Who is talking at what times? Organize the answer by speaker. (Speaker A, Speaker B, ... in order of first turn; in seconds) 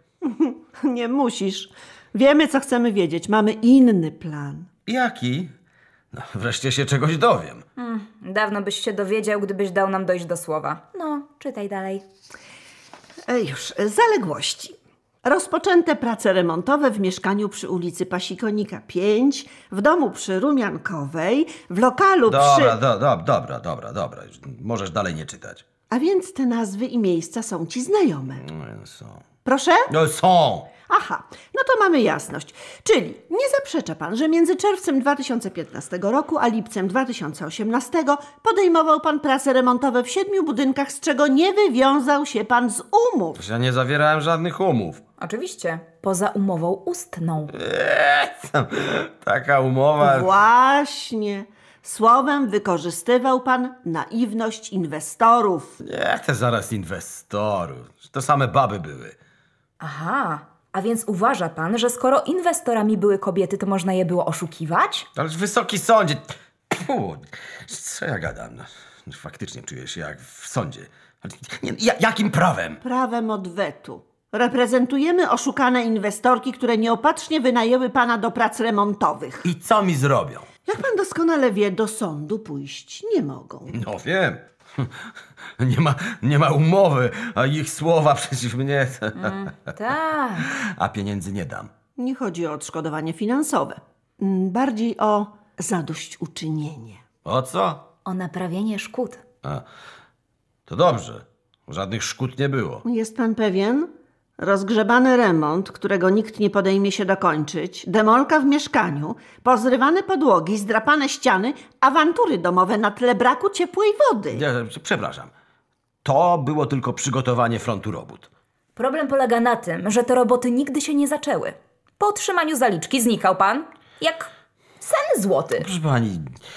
Speaker A: 0.2-4.7, 13.3-22.8, 25.9-28.4, 29.4-29.9, 30.9-43.4, 50.0-55.8, 72.8-79.5, 80.7-83.8, 92.0-97.0, 102.8-114.4
Speaker B: 4.9-5.5, 6.1-7.7, 22.3-25.6, 28.4-29.2, 29.9-30.7, 43.4-45.0, 47.5-50.3, 55.8-59.1, 65.2-72.8, 79.4-80.5, 83.7-84.9, 85.6-89.5, 90.5-91.7, 97.2-97.8, 100.7-102.8, 114.3-115.3, 116.0-118.3, 125.6-126.3
Speaker C: 7.8-12.0, 45.2-47.5, 59.8-65.1, 89.2-90.5, 98.0-99.2, 118.8-125.7